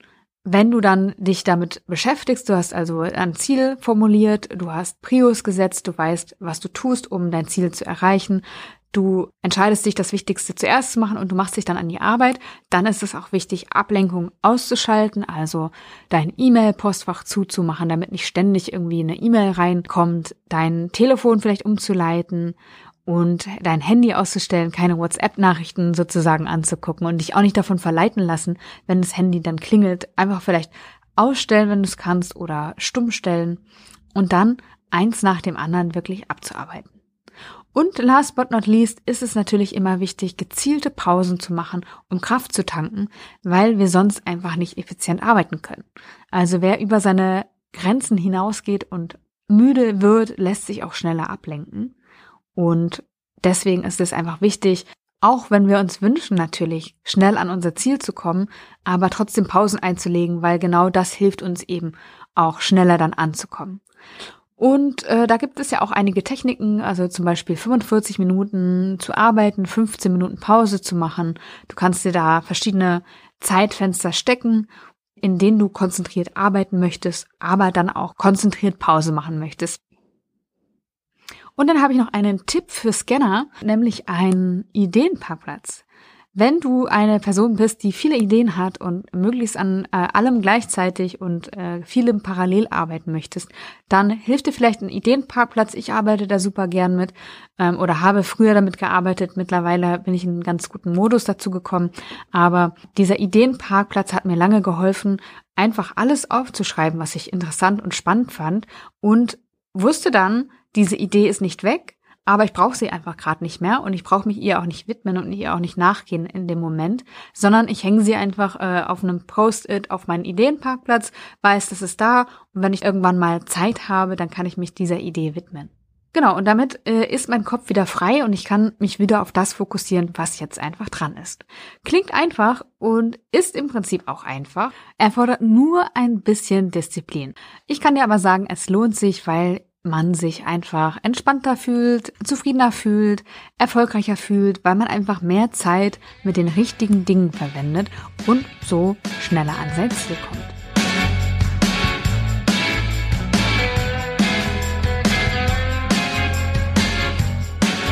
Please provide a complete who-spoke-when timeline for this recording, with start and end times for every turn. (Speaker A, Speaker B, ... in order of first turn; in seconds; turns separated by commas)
Speaker A: 0.5-22.6, Speaker A: 23.1-33.6, Speaker A: 34.1-36.9, Speaker A: 37.8-51.9, Speaker A: 52.6-63.8, Speaker A: 64.6-74.7, Speaker A: 75.2-79.8, Speaker A: 81.6-85.8, Speaker A: 86.3-150.6